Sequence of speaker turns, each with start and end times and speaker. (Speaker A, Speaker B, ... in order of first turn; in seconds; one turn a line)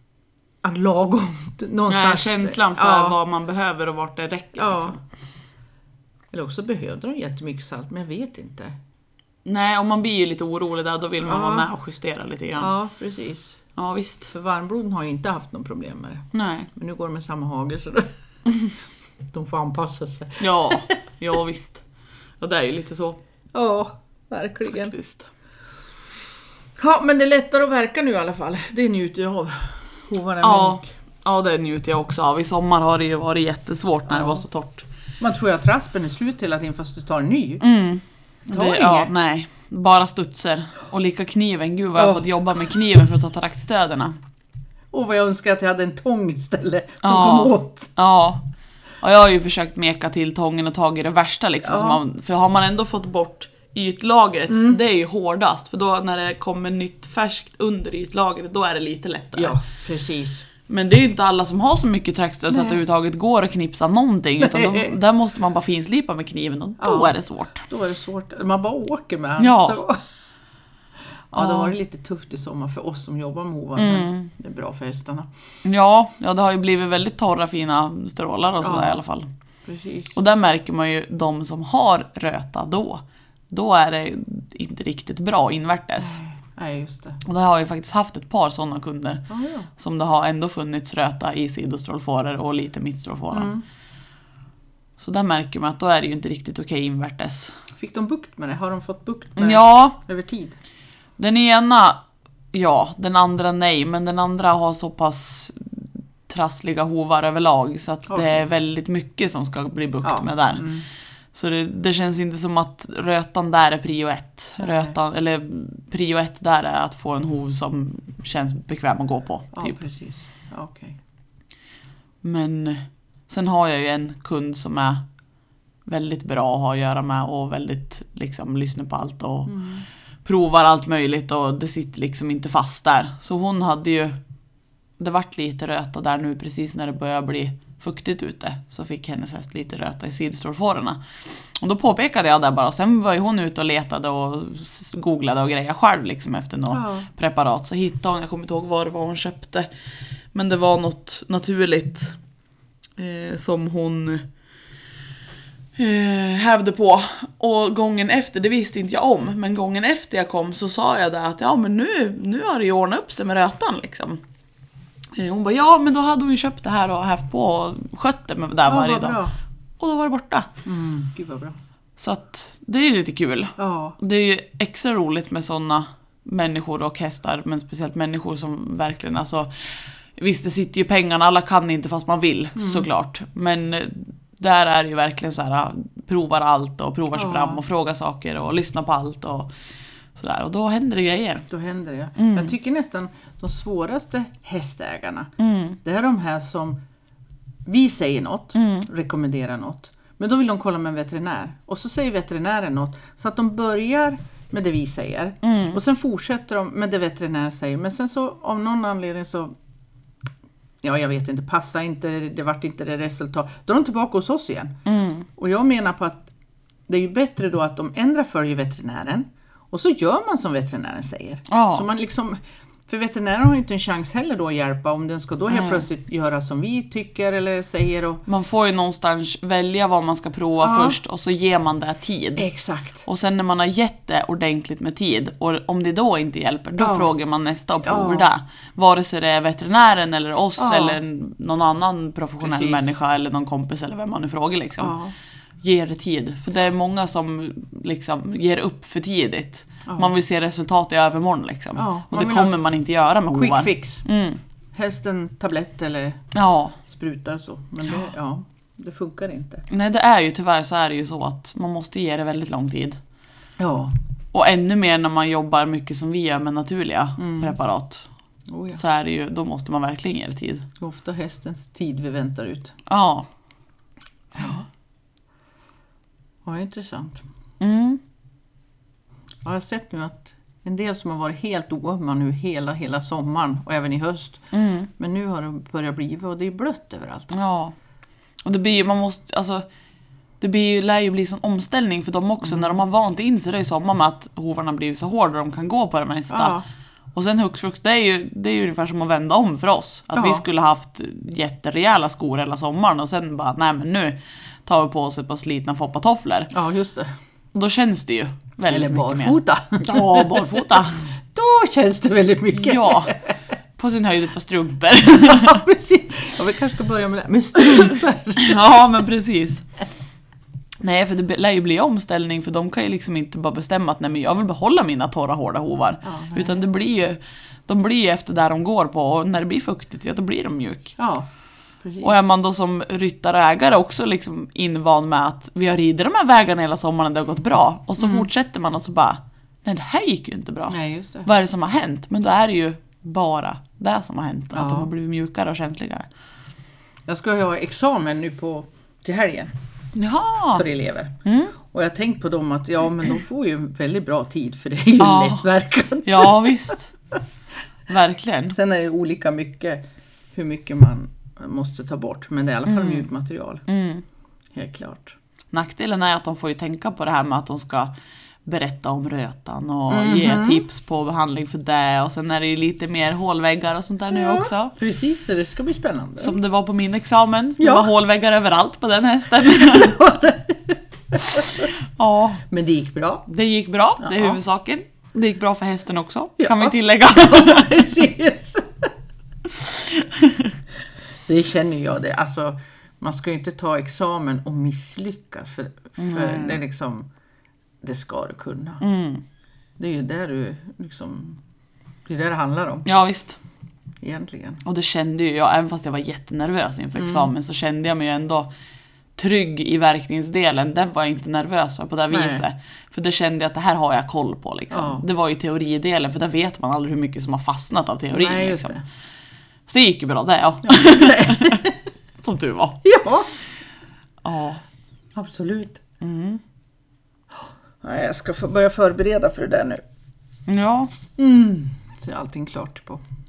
Speaker A: 0.6-3.2
Speaker B: 1.9-5.0
Speaker A: 4.5-5.0
Speaker A: 6.3-8.8
Speaker B: 9.4-12.7
Speaker A: 11.2-11.7
Speaker A: 12.6-13.6
Speaker B: 13.8-14.3
Speaker A: 14.3-18.1
Speaker B: 16.3-16.7
Speaker A: 19.3-20.9
Speaker B: 20.4-21.8
Speaker B: 22.4-23.2
Speaker A: 23.5-24.9
Speaker B: 24.6-25.3
Speaker A: 26.8-30.9
Speaker B: 30.4-34.9
Speaker A: 34.1-34.4
Speaker A: 35.2-37.6
Speaker B: 37.6-44.1
Speaker A: 38.5-39.1
Speaker A: 42.0-42.3
Speaker A: 44.9-47.9
Speaker B: 47.0-48.4
Speaker B: 49.0-59.6
Speaker A: 51.6-52.0
Speaker A: 54.5-54.8
Speaker A: 59.3-60.5
Speaker B: 60.7-67.6
Speaker A: 62.5-62.8
Speaker A: 64.4-64.9
Speaker A: 66.8-70.0
Speaker B: 69.4-69.8
Speaker B: 71.3-71.7
Speaker A: 71.3-75.3
Speaker B: 73.8-74.3
Speaker B: 75.6-79.3
Speaker A: 78.6-79.0
Speaker A: 79.6-80.2
Speaker B: 80.1-86.2
Speaker A: 86.0-87.2
Speaker B: 87.2-89.2
Speaker A: 89.3-89.7
Speaker B: 89.8-93.5
Speaker A: 93.3-93.6
Speaker B: 95.0-97.5
Speaker A: 97.8-100.6
Speaker B: 99.4-100.0
Speaker B: 101.2-102.0
Speaker B: 102.5-110.6
Speaker A: 108.1-108.4
Speaker A: 110.0-110.8
Speaker B: 111.3-119.8
Speaker A: 114.6-114.9
Speaker A: 119.5-121.0
Speaker B: 122.2-125.0
Speaker B: 125.8-129.5
Speaker A: 129.5-129.8
Speaker B: 130.2-134.2
Speaker B: 135.0-141.0
Speaker B: 141.6-149.7
Speaker A: 146.7-147.1
Speaker B: 150.3-152.2
Speaker B: 153.0-154.2
Speaker B: 155.8-164.2
Speaker B: 165.1-169.2
Speaker A: 168.6-169.3
Speaker B: 169.8-170.5
Speaker A: 170.6-171.6
Speaker B: 172.0-189.5
Speaker A: 173.6-174.0
Speaker A: 182.6-182.8
Speaker A: 187.1-187.6
Speaker B: 190.1-191.5
Speaker A: 191.5-195.3
Speaker B: 192.2-192.5
Speaker B: 195.4-195.8
Speaker A: 195.8-196.8
Speaker A: 197.7-209.5
Speaker B: 198.6-198.9
Speaker B: 205.4-205.8
Speaker A: 210.8-214.8
Speaker B: 214.8-215.3
Speaker A: 215.3-216.3
Speaker A: 216.9-228.2
Speaker B: 221.5-221.8
Speaker B: 225.5-225.8
Speaker B: 228.2-232.4
Speaker A: 230.6-231.0
Speaker A: 232.4-233.1
Speaker B: 233.1-244.9
Speaker A: 236.8-237.1
Speaker A: 237.8-238.3
Speaker A: 240.6-241.0
Speaker A: 242.4-242.9
Speaker A: 244.8-245.1
Speaker B: 245.6-254.4
Speaker A: 249.8-250.1
Speaker A: 251.8-252.6
Speaker A: 253.3-254.0
Speaker A: 254.7-256.2
Speaker B: 256.3-256.8
Speaker A: 256.8-259.6
Speaker B: 259.7-263.0
Speaker A: 263.6-263.9
Speaker B: 264.3-268.1
Speaker A: 267.2-267.6
Speaker A: 268.5-268.8
Speaker B: 268.8-270.7
Speaker A: 270.8-272.8
Speaker B: 272.9-273.3
Speaker A: 274.4-274.6
Speaker A: 276.4-277.2
Speaker B: 277.6-278.0
Speaker A: 279.4-287.3
Speaker B: 284.5-284.9
Speaker B: 287.3-287.7
Speaker B: 288.4-289.6
Speaker B: 290.4-296.5
Speaker A: 292.4-292.8
Speaker A: 296.3-296.6
Speaker B: 297.1-306.5
Speaker A: 300.1-300.4
Speaker A: 306.5-307.1
Speaker B: 307.5-311.0
Speaker A: 308.7-310.8
Speaker A: 311.3-313.3
Speaker B: 312.5-313.1
Speaker B: 313.8-315.6
Speaker A: 315.1-318.6
Speaker B: 318.4-319.6
Speaker B: 320.8-330.9
Speaker A: 326.0-326.6
Speaker A: 331.0-331.3
Speaker A: 331.8-332.1
Speaker B: 332.0-346.1
Speaker A: 338.0-338.3
Speaker A: 340.7-341.3
Speaker A: 344.5-344.9
Speaker A: 347.1-349.5
Speaker B: 349.9-350.6
Speaker A: 350.5-356.5
Speaker B: 351.2-351.5
Speaker B: 355.0-355.5
Speaker B: 356.0-356.9
Speaker B: 357.9-358.5
Speaker A: 358.5-359.8
Speaker A: 360.3-363.6
Speaker B: 362.6-363.0
Speaker B: 363.7-364.0
Speaker A: 364.5-365.1
Speaker B: 365.5-367.9
Speaker B: 368.4-374.7
Speaker A: 369.9-370.7
Speaker A: 374.1-376.4
Speaker B: 376.2-380.1
Speaker A: 377.6-377.9
Speaker A: 379.5-381.7
Speaker B: 381.4-382.4
Speaker A: 382.5-383.2
Speaker B: 383.3-387.7
Speaker A: 384.0-384.4
Speaker A: 386.4-388.9
Speaker B: 389.5-390.5
Speaker A: 391.3-397.1
Speaker B: 396.0-396.6
Speaker A: 397.8-398.8
Speaker B: 398.8-399.2
Speaker A: 399.8-401.4
Speaker A: 402.1-402.9
Speaker B: 402.8-403.4
Speaker A: 404.0-404.6
Speaker B: 404.6-408.5
Speaker A: 406.9-407.3
Speaker B: 409.1-418.7
Speaker A: 412.1-412.4
Speaker A: 414.7-415.0
Speaker A: 418.1-418.8
Speaker B: 419.7-421.6
Speaker A: 420.6-421.8
Speaker B: 422.2-422.8
Speaker A: 422.8-423.4
Speaker B: 424.2-424.6
Speaker A: 425.1-425.8
Speaker B: 426.0-426.4
Speaker A: 427.8-429.8
Speaker B: 430.5-430.9
Speaker A: 431.1-433.0